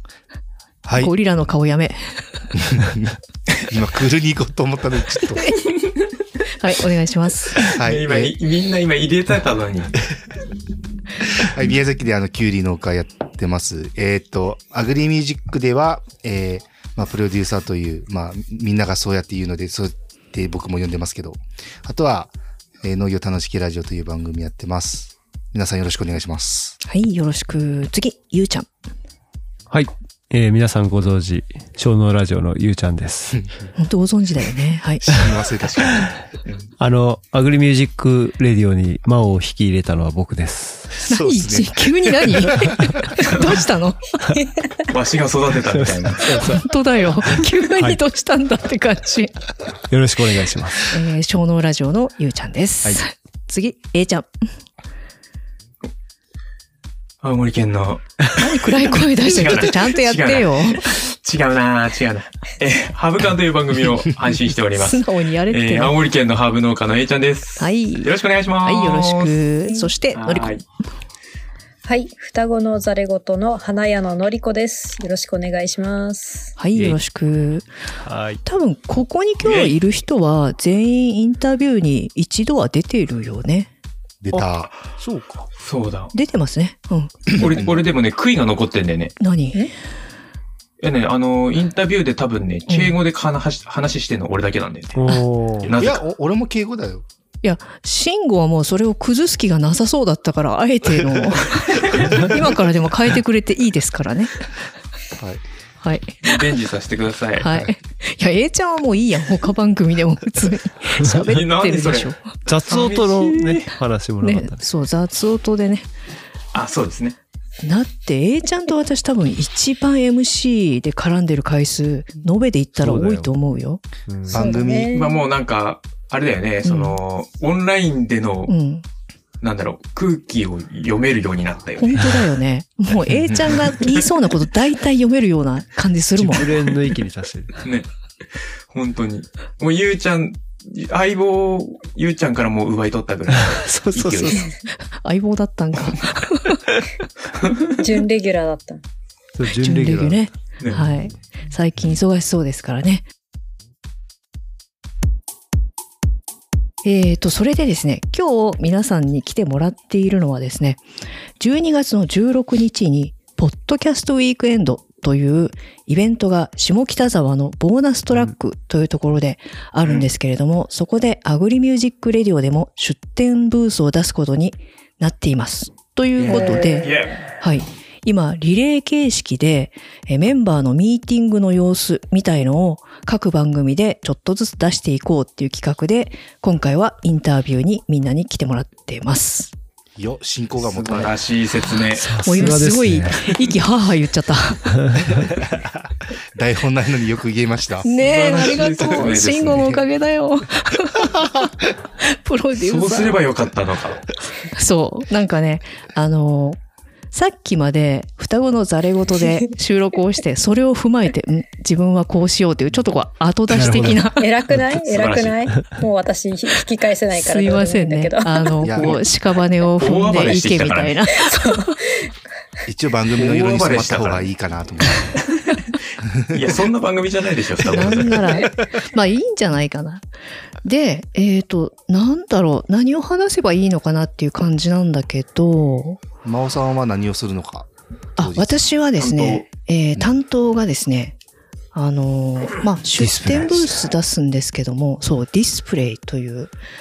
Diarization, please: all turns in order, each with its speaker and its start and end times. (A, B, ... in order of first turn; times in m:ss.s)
0:00.8-0:01.1 A
0:01.0-0:02.0 B
0:02.6-0:03.1 A
0:03.6-0:05.4 A
0:05.3-0:05.6 B
0:06.6-0:07.8 B
0:07.6-0:09.9 C
0:07.7-0:08.3 A
0:11.4-0:26.8 A
0:26.8-0:28.7 B
0:29.7-0:33.4 D
0:33.8-0:35.0 B
0:35.1-0:36.1 A
0:36.8-0:40.9 D
0:41.0-0:42.7 A
0:41.0-0:44.4 B
0:44.9-0:46.4 C
0:45.7-0:46.6 D
0:46.4-0:49.5 B
0:49.9-0:50.9 D
0:50.9-0:54.3 B
0:57.2-1:09.4 C
0:58.3-1:00.8 B
1:04.7-1:06.0 B
1:07.6-1:10.5 B
1:10.1-1:10.6 C
1:11.8-1:16.6 E
1:16.6-1:17.7 B
1:16.7-1:17.0 D
1:18.0-1:18.4 D
1:18.4-1:23.7 B
1:19.4-1:19.8 C
1:24.2-1:24.7 A
1:25.0-1:25.4 D
1:25.6-1:26.1 C
1:26.1-1:27.5 B
1:27.3-1:27.8 A
1:27.4-1:29.1 C
1:29.2-1:29.6 B
1:30.8-1:35.1 C
1:32.7-1:33.0 B
1:35.0-1:35.7 D
1:35.6-1:36.0 C
1:35.7-1:37.0 A
1:37.4-1:44.4 B
1:45.2-1:45.4 A
1:45.8-1:46.2 B
1:46.2-1:47.5 C
1:47.4-1:52.3 B
1:51.1-1:52.1 C
1:52.4-1:54.6 D
1:52.6-1:53.6 C
1:54.2-1:55.8 B
1:56.5-1:57.2 C
1:57.6-2:03.8 B
2:02.8-2:03.3 D
2:04.1-2:04.5 D
2:04.3-2:04.9 A
2:04.3-2:05.2 E
2:04.9-2:08.5 C
2:06.6-2:07.0 B
2:08.5-2:08.8 B
2:09.4-2:12.2 C
2:11.8-2:16.5 B
2:13.2-2:14.0 C
2:16.2-2:17.6 D
2:17.6-2:24.5 C
2:23.4-2:24.4 D
2:25.0-2:26.8 B
2:27.4-2:27.7 C
2:27.8-2:28.8 E
2:29.4-2:30.2 D
2:29.6-2:33.0 B
2:30.6-2:30.9 C
2:36.8-2:40.8 B
2:41.4-3:09.5 B
2:49.8-2:50.1 C
2:56.2-2:57.2 E
2:56.2-2:57.3 C
3:10.0-3:11.1 A
3:10.6-3:12.2 C
3:12.0-3:13.3 D
3:12.1-3:15.2 B
3:16.3-3:17.9 A
3:17.8-3:21.5 B
3:18.0-3:19.8 C
3:22.0-3:23.2 B
3:22.6-3:24.1 C
3:24.4-3:26.6 B
3:27.1-3:34.3 B
3:33.5-3:34.1 D
3:34.1-3:38.5 E
3:34.8-3:35.4 C
3:35.5-3:35.7 D
3:37.1-3:41.7 B
3:38.6-3:39.0 A
3:38.8-3:39.0 C
3:39.7-3:41.0 C
3:41.2-3:42.0 E
3:42.6-3:45.0 A
3:43.1-3:44.3 C
3:45.2-3:45.7 C
3:46.3-3:48.3 C
3:47.7-3:50.0 B
3:50.6-3:56.0 B
3:56.2-3:58.5 A
3:58.2-4:01.2 B
3:59.0-3:59.4 C
4:01.7-4:06.5 B
4:03.0-4:03.8 D